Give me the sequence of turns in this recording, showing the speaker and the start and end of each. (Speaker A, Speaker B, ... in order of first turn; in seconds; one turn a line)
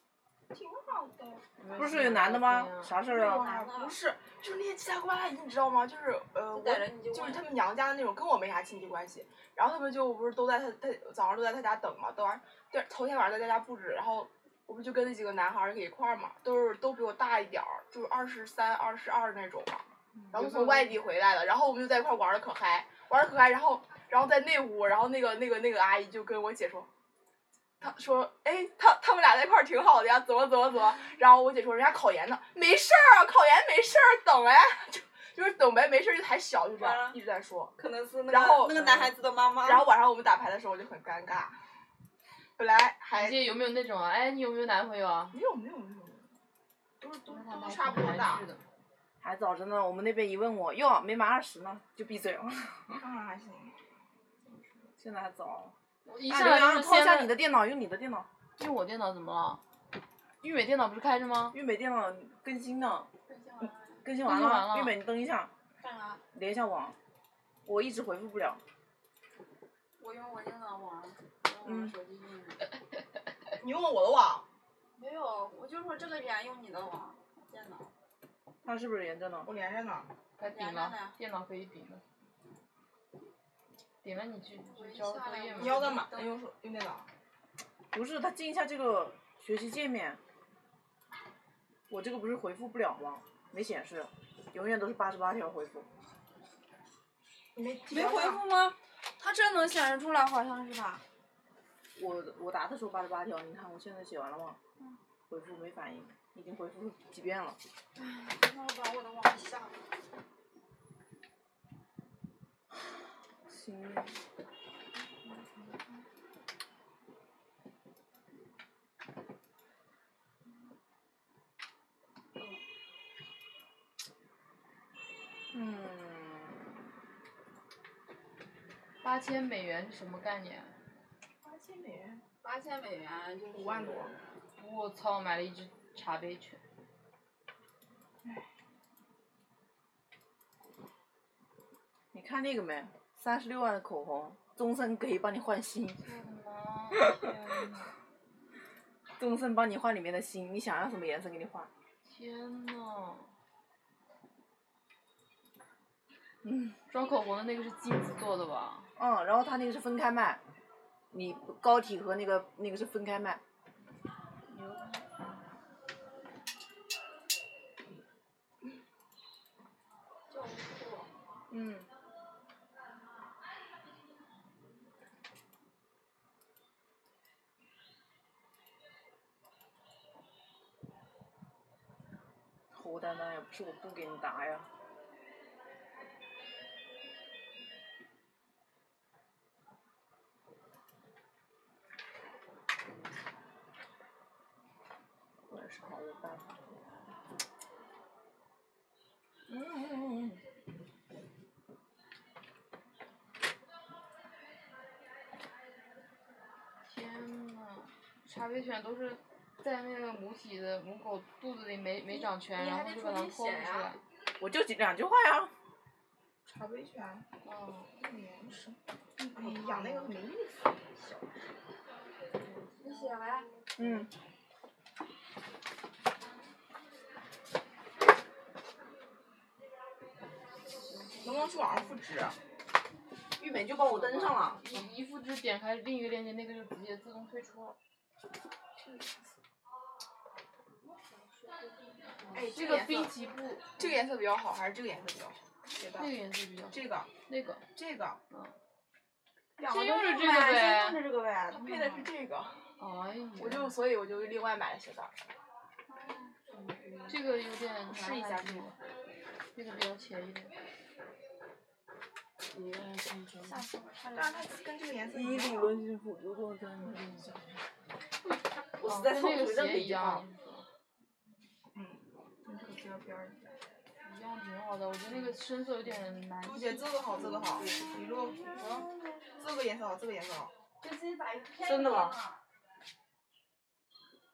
Speaker A: 0.5-1.4
Speaker B: 1.6-3.0
Speaker C: 1.8-3.5
Speaker D: 3.1-4.0
Speaker A: 3.1-26.9
Speaker D: 6.5-7.5
Speaker B: 20.4-21.0
Speaker A: 27.8-37.7
Speaker D: 36.8-37.2
Speaker D: 37.8-39.9
Speaker A: 38.3-41.6
Speaker A: 42.6-43.4
Speaker B: 43.1-45.4
Speaker A: 45.3-46.3
Speaker A: 47.0-48.5
Speaker B: 47.3-48.6
Speaker C: 49.2-53.0
Speaker A: 53.0-53.8
Speaker C: 55.0-55.7
Speaker B: 56.1-57.3
Speaker C: 56.3-58.3
Speaker B: 58.6-59.6
Speaker B: 60.4-61.6
Speaker C: 61.5-63.1
Speaker D: 63.3-64.0
Speaker C: 64.0-65.5
Speaker B: 64.2-65.0
Speaker D: 65.8-66.2
Speaker C: 66.3-67.0
Speaker C: 67.7-68.6
Speaker D: 70.0-72.7
Speaker C: 71.6-71.9
Speaker A: 73.6-74.5
Speaker D: 75.0-77.9
Speaker C: 78.6-79.5
Speaker A: 79.5-80.1
Speaker B: 80.4-82.0
Speaker D: 80.5-81.2
Speaker B: 84.0-86.0
Speaker D: 84.7-86.4
Speaker A: 85.6-87.1
Speaker C: 87.9-90.2
Speaker C: 91.9-95.9
Speaker A: 97.5-98.4
Speaker D: 97.9-101.0
Speaker C: 102.0-104.6
Speaker C: 105.3-107.6
Speaker D: 108.0-109.8
Speaker C: 113.5-114.2
Speaker D: 115.3-115.7
Speaker D: 122.4-122.6
Speaker C: 125.5-126.8
Speaker B: 129.0-130.7
Speaker A: 131.4-132.2
Speaker D: 132.4-134.2
Speaker A: 133.5-134.2
Speaker B: 134.6-136.6
Speaker C: 142.1-146.0
Speaker B: 146.0-147.2
Speaker A: 147.2-147.7
Speaker C: 149.2-151.7
Speaker B: 152.1-153.3
Speaker C: 156.4-156.8
Speaker B: 156.9-158.9
Speaker C: 159.0-160.4
Speaker C: 161.1-163.4
Speaker B: 164.5-165.1
Speaker D: 170.3-171.1
Speaker C: 171.5-171.9
Speaker C: 182.7-184.7
Speaker C: 195.5-196.9
Speaker C: 199.5-200.4
Speaker B: 206.9-214.0
Speaker D: 212.1-213.9
Speaker C: 214.4-215.5
Speaker A: 216.5-217.3
Speaker B: 217.4-217.9
Speaker A: 218.0-218.8
Speaker A: 219.3-221.2
Speaker B: 219.4-220.1
Speaker D: 222.8-223.5
Speaker C: 223.8-224.1
Speaker D: 230.9-232.0
Speaker A: 231.2-232.4
Speaker C: 233.4-234.6
Speaker B: 233.9-237.8
Speaker A: 238.8-239.2
Speaker D: 241.4-242.4
Speaker A: 242.3-243.1
Speaker B: 242.5-243.8
Speaker A: 243.8-246.1
Speaker B: 246.0-247.7
Speaker A: 246.7-247.1
Speaker A: 247.7-248.2
Speaker D: 249.6-252.1
Speaker B: 249.6-251.0
Speaker A: 251.5-252.6
Speaker B: 252.8-253.8
Speaker A: 253.4-255.2
Speaker D: 255.9-257.1
Speaker B: 257.1-258.8
Speaker D: 257.9-258.8
Speaker B: 259.6-260.5
Speaker C: 262.5-263.6
Speaker D: 263.4-264.6
Speaker A: 264.1-265.7
Speaker C: 265.1-267.6
Speaker C: 268.8-270.2
Speaker B: 268.8-270.6
Speaker A: 271.8-273.5
Speaker B: 274.0-277.0
Speaker A: 276.4-278.6
Speaker C: 277.1-277.9
Speaker D: 278.4-279.3
Speaker C: 278.6-278.9
Speaker A: 279.4-280.5
Speaker D: 280.8-282.4
Speaker C: 281.6-282.2